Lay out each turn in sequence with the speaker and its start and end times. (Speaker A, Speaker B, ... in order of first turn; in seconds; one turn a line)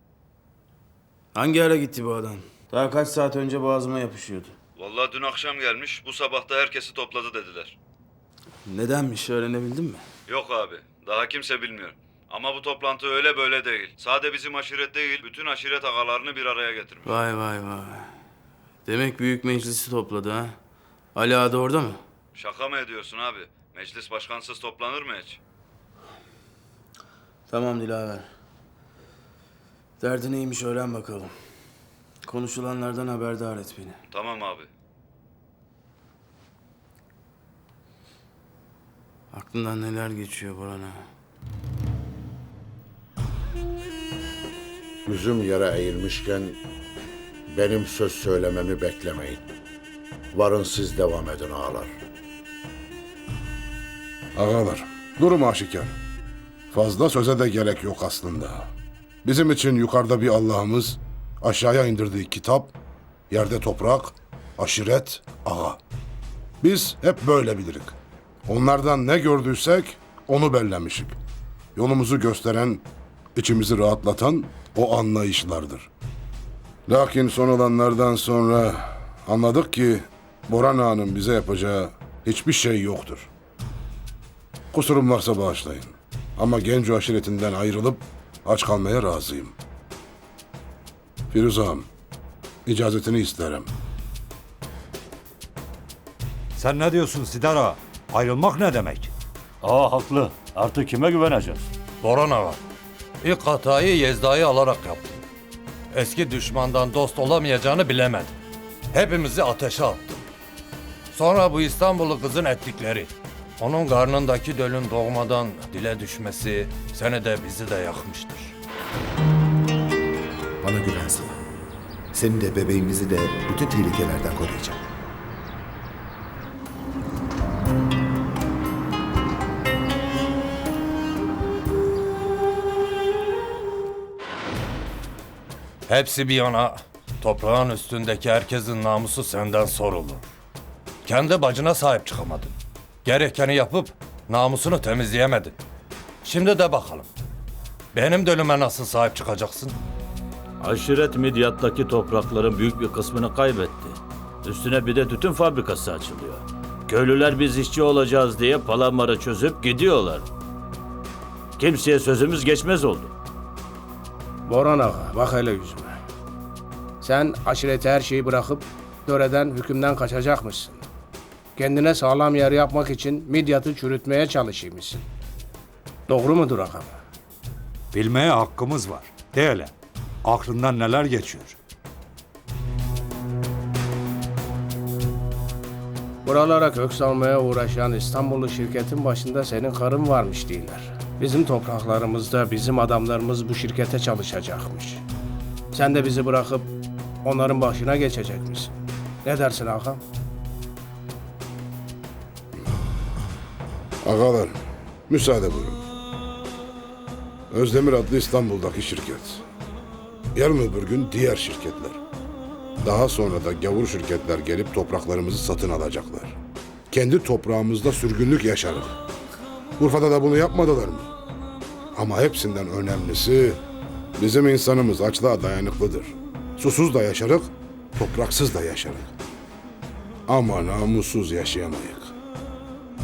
Speaker A: 1.4-4.5
Speaker B: 4.8-7.8
Speaker A: 8.7-10.0
Speaker B: 10.3-17.2
Speaker A: 17.1-18.1
Speaker A: 18.9-20.5
Speaker A: 21.1-22.0
Speaker B: 22.3-25.4
Speaker A: 27.5-28.3
Speaker A: 30.0-31.3
Speaker A: 32.2-34.0
Speaker B: 34.1-34.7
Speaker A: 39.3-41.0
Speaker C: 45.0-46.6
Speaker C: 47.5-49.4
Speaker C: 50.3-51.9
Speaker D: 54.4-55.9
Speaker D: 56.7-58.7
Speaker D: 59.2-62.7
Speaker D: 63.3-65.8
Speaker D: 66.6-67.9
Speaker D: 68.5-71.2
Speaker D: 71.8-72.8
Speaker D: 73.3-75.9
Speaker D: 76.9-83.3
Speaker D: 84.7-89.5
Speaker D: 91.3-91.9
Speaker D: 92.7-93.7
Speaker E: 96.5-99.1
Speaker F: 99.6-101.7
Speaker G: 102.0-102.6
Speaker G: 103.2-105.2
Speaker G: 105.9-108.3
Speaker G: 108.9-110.3
Speaker G: 111.1-118.5
Speaker H: 120.6-121.4
Speaker H: 122.1-124.8
Speaker G: 135.9-140.3
Speaker G: 141.0-142.5
Speaker G: 143.0-145.5
Speaker G: 146.2-147.1
Speaker G: 147.9-149.8
Speaker F: 150.6-160.3
Speaker F: 161.6-163.1
Speaker I: 164.4-166.0
Speaker I: 167.0-170.8
Speaker I: 171.6-175.0
Speaker I: 176.1-177.0
Speaker E: 177.9-179.7
Speaker E: 180.2-181.6
Speaker I: 186.2-195.0
Speaker I: 195.7-196.7
Speaker I: 197.2-198.7
Speaker I: 199.2-200.0
Speaker D: 204.0-204.6
Speaker D: 205.1-205.8
Speaker D: 207.5-209.4
Speaker D: 210.3-212.0
Speaker D: 212.8-216.4
Speaker D: 216.9-219.0
Speaker D: 219.8-221.1
Speaker D: 221.9-223.6
Speaker D: 224.2-229.1
Speaker D: 230.3-232.1